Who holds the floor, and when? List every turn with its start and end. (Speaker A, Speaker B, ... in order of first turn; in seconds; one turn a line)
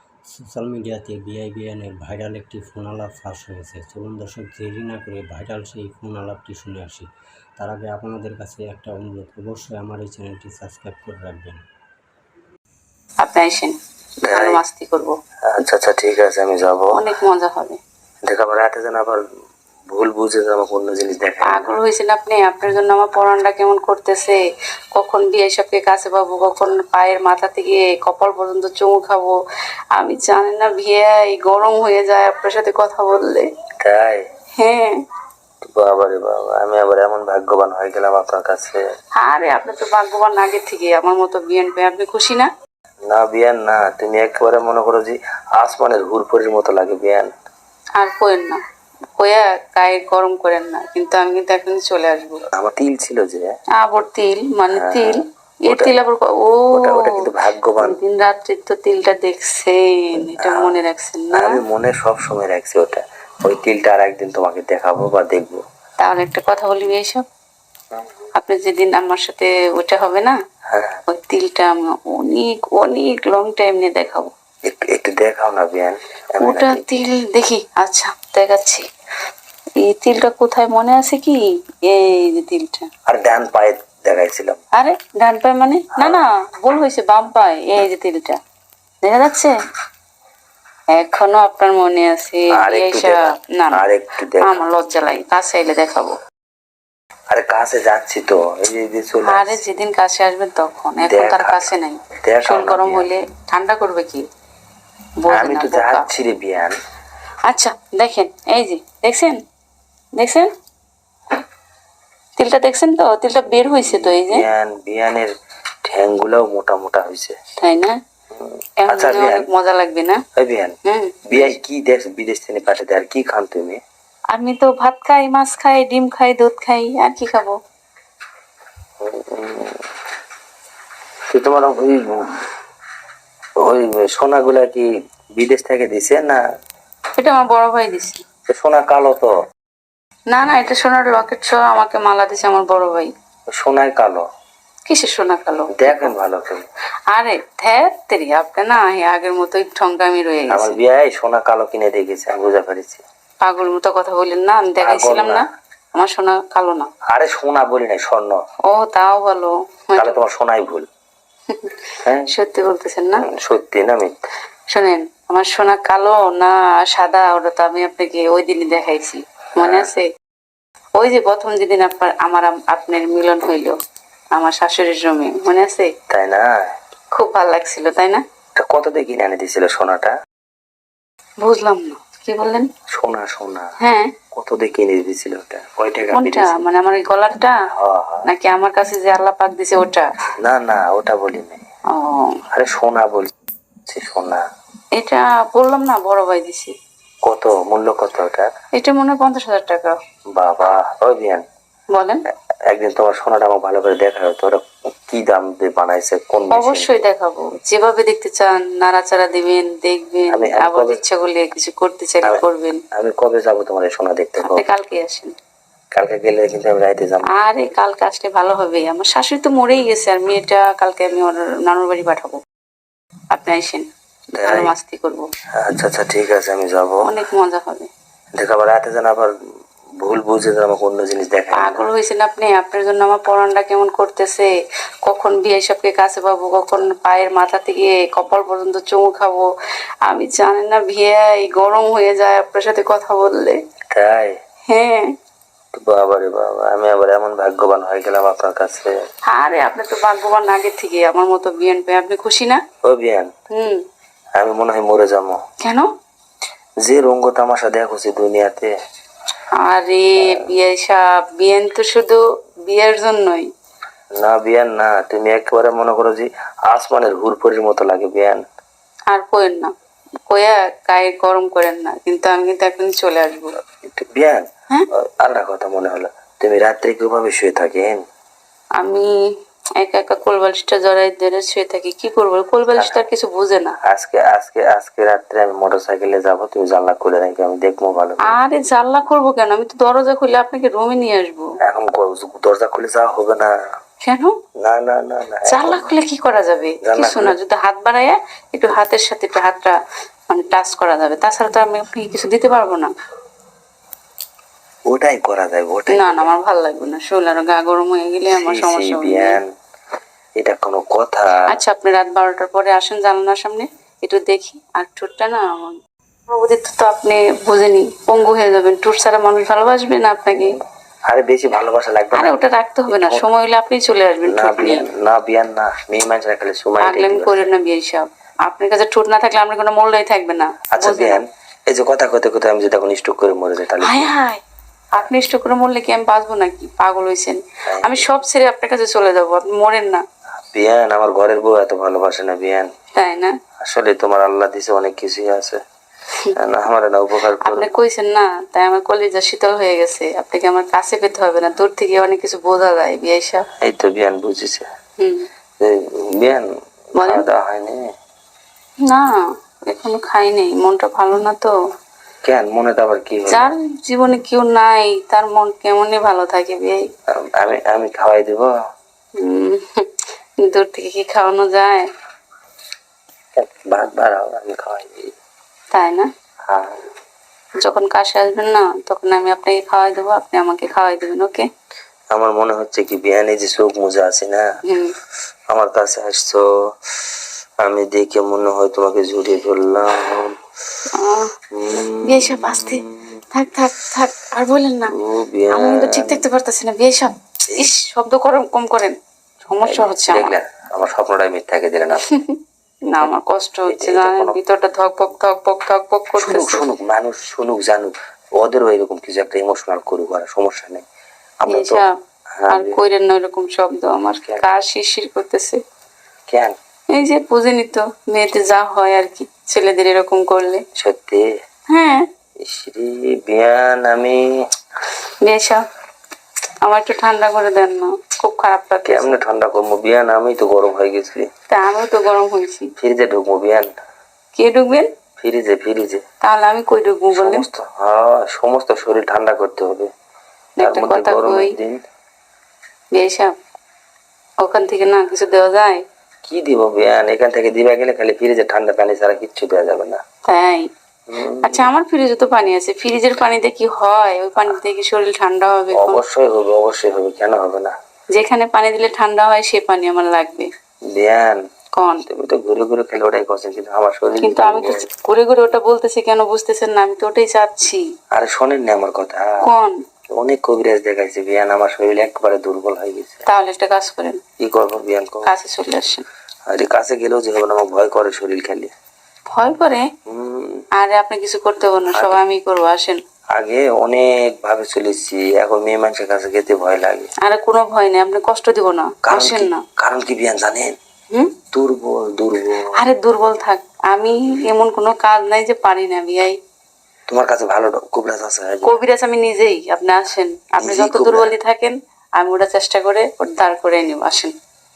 Speaker A: 0.3-7.1
Speaker A: 7.6-11.6
Speaker B: 13.2-13.8
Speaker C: 14.2-14.6
Speaker B: 14.3-15.1
Speaker C: 15.5-17.0
Speaker B: 17.0-17.8
Speaker C: 18.3-19.2
Speaker C: 19.9-21.7
Speaker B: 21.5-24.4
Speaker B: 25.0-29.4
Speaker B: 30.0-33.5
Speaker C: 33.8-34.2
Speaker B: 34.6-35.0
Speaker C: 35.6-38.8
Speaker B: 39.2-42.5
Speaker C: 43.1-47.3
Speaker B: 48.0-48.6
Speaker B: 49.2-52.4
Speaker C: 52.5-53.5
Speaker B: 53.8-61.5
Speaker C: 54.7-55.9
Speaker C: 56.7-58.0
Speaker C: 60.4-60.8
Speaker C: 61.3-65.6
Speaker B: 66.0-67.2
Speaker B: 68.4-70.3
Speaker C: 70.7-71.0
Speaker B: 71.1-74.3
Speaker C: 74.7-76.8
Speaker B: 76.4-78.8
Speaker B: 79.8-82.9
Speaker C: 83.1-84.6
Speaker B: 84.8-88.4
Speaker C: 86.0-86.2
Speaker B: 89.0-89.5
Speaker B: 90.9-93.8
Speaker C: 92.5-93.2
Speaker C: 93.7-94.6
Speaker B: 94.4-96.1
Speaker C: 97.3-99.6
Speaker B: 99.3-104.2
Speaker C: 101.0-103.1
Speaker B: 105.2-106.1
Speaker C: 105.3-106.8
Speaker B: 107.5-109.4
Speaker B: 110.2-110.5
Speaker B: 112.4-114.5
Speaker C: 113.8-115.3
Speaker C: 115.8-117.4
Speaker B: 117.6-117.9
Speaker C: 118.3-119.5
Speaker B: 118.8-120.2
Speaker C: 120.4-120.8
Speaker B: 120.9-121.5
Speaker C: 121.3-123.8
Speaker B: 124.3-127.5
Speaker C: 129.0-129.8
Speaker C: 131.3-132.4
Speaker C: 133.6-136.4
Speaker B: 137.2-138.2
Speaker C: 138.5-139.3
Speaker B: 140.3-143.1
Speaker C: 143.5-144.3
Speaker B: 144.9-146.1
Speaker C: 145.7-146.7
Speaker B: 147.1-150.8
Speaker C: 150.5-153.0
Speaker B: 153.4-156.9
Speaker C: 154.8-155.4
Speaker C: 157.1-158.4
Speaker B: 158.7-160.2
Speaker C: 160.0-160.9
Speaker B: 161.5-161.8
Speaker B: 162.3-163.2
Speaker C: 163.2-164.1
Speaker B: 164.7-170.1
Speaker C: 169.6-169.9
Speaker B: 171.0-173.8
Speaker B: 174.3-175.9
Speaker C: 176.1-176.5
Speaker B: 177.2-178.2
Speaker C: 178.6-180.2
Speaker B: 181.4-182.7
Speaker C: 182.9-183.7
Speaker B: 183.8-184.1
Speaker C: 184.3-186.6
Speaker B: 186.1-187.6
Speaker C: 187.8-188.3
Speaker B: 188.2-190.1
Speaker C: 190.4-191.6
Speaker B: 191.9-192.4
Speaker C: 192.5-193.3
Speaker C: 193.9-194.4
Speaker B: 195.0-196.7
Speaker C: 197.2-198.5
Speaker B: 198.8-200.0
Speaker C: 200.4-201.4
Speaker B: 201.9-202.2
Speaker C: 202.7-207.0
Speaker B: 206.5-212.8
Speaker C: 210.3-211.0
Speaker C: 212.9-214.6
Speaker B: 214.4-215.3
Speaker C: 215.9-217.3
Speaker B: 217.4-222.4
Speaker B: 223.3-223.9
Speaker C: 224.4-224.7
Speaker B: 224.4-225.3
Speaker C: 225.6-227.0
Speaker B: 227.1-227.9
Speaker C: 228.4-229.3
Speaker C: 230.0-231.8
Speaker B: 231.6-234.5
Speaker B: 235.1-239.5
Speaker B: 240.1-243.6
Speaker C: 243.9-244.3
Speaker B: 244.7-245.1
Speaker C: 245.7-248.9
Speaker B: 249.3-252.6
Speaker C: 252.8-253.3
Speaker B: 253.5-253.8
Speaker C: 254.4-255.4
Speaker C: 256.8-258.7
Speaker B: 259.6-263.5
Speaker C: 264.2-268.4
Speaker B: 269.1-269.7
Speaker B: 270.3-273.5
Speaker C: 273.8-278.0
Speaker B: 278.8-279.1
Speaker B: 279.8-283.8
Speaker C: 283.9-288.4
Speaker B: 288.2-291.5
Speaker C: 291.6-293.5
Speaker B: 294.0-294.4
Speaker C: 294.6-295.9
Speaker B: 295.5-299.7
Speaker C: 296.8-297.4
Speaker B: 300.3-302.9
Speaker C: 304.9-306.3
Speaker B: 305.9-309.4
Speaker C: 308.3-309.5
Speaker C: 310.4-311.6
Speaker B: 311.5-315.8
Speaker B: 316.3-320.6
Speaker C: 321.1-322.4
Speaker B: 322.1-324.9
Speaker C: 322.9-323.3
Speaker C: 324.2-327.4
Speaker B: 326.8-331.2
Speaker C: 330.8-334.1
Speaker B: 333.8-334.4
Speaker B: 335.0-340.0
Speaker C: 337.7-338.1
Speaker C: 340.5-342.7
Speaker B: 343.0-343.3
Speaker C: 343.6-345.6
Speaker C: 346.4-347.7
Speaker B: 347.5-353.4
Speaker C: 353.6-354.7
Speaker B: 355.0-355.2
Speaker C: 355.6-356.4
Speaker B: 357.0-357.2
Speaker C: 357.0-357.8
Speaker B: 359.7-361.5
Speaker C: 362.2-363.5
Speaker B: 363.3-366.8
Speaker C: 367.4-368.5
Speaker B: 369.2-369.9
Speaker B: 370.4-371.9
Speaker C: 373.4-375.1
Speaker B: 375.7-376.1
Speaker C: 376.5-376.8
Speaker B: 377.6-381.5
Speaker C: 382.1-384.5
Speaker B: 384.7-384.9
Speaker C: 385.5-386.4
Speaker C: 387.6-390.4
Speaker B: 390.9-391.3
Speaker C: 391.6-393.1
Speaker B: 392.1-392.8
Speaker B: 393.3-394.9
Speaker C: 394.9-396.2
Speaker B: 395.5-399.0
Speaker B: 399.5-400.3
Speaker C: 399.6-402.1
Speaker B: 402.1-402.4
Speaker B: 402.9-406.6
Speaker C: 403.7-404.4
Speaker C: 406.2-410.8
Speaker C: 411.4-411.9
Speaker B: 411.5-411.9
Speaker C: 412.4-412.8
Speaker B: 412.5-415.6
Speaker C: 416.3-416.6
Speaker B: 416.9-420.6
Speaker C: 420.8-421.3
Speaker B: 421.7-422.1
Speaker C: 422.4-424.2
Speaker B: 425.2-425.6
Speaker B: 426.6-429.2
Speaker C: 428.9-431.3
Speaker B: 431.5-432.7
Speaker C: 432.8-433.7
Speaker B: 434.4-434.9
Speaker C: 435.2-436.0
Speaker B: 436.2-437.4
Speaker C: 437.1-439.9
Speaker B: 440.6-441.5
Speaker C: 440.6-441.8
Speaker B: 442.9-443.3
Speaker B: 444.4-445.8
Speaker C: 446.3-450.0
Speaker B: 450.3-450.7
Speaker C: 451.1-451.7
Speaker B: 451.4-456.0
Speaker C: 455.7-457.7
Speaker B: 458.1-460.5
Speaker C: 460.9-461.4
Speaker B: 461.8-462.0
Speaker C: 462.1-464.9
Speaker B: 464.2-467.8
Speaker C: 468.1-469.3
Speaker B: 469.4-469.8
Speaker C: 470.1-473.2
Speaker B: 473.3-474.2
Speaker C: 474.4-475.3
Speaker B: 475.3-476.1
Speaker C: 476.5-478.7
Speaker B: 479.3-479.9
Speaker C: 480.1-480.6
Speaker B: 480.8-483.0
Speaker C: 481.9-482.2
Speaker C: 483.4-487.1
Speaker B: 487.2-489.6
Speaker C: 489.1-490.8
Speaker C: 491.5-492.7
Speaker B: 492.8-496.4
Speaker C: 497.1-498.8
Speaker B: 498.6-504.3
Speaker C: 500.6-501.3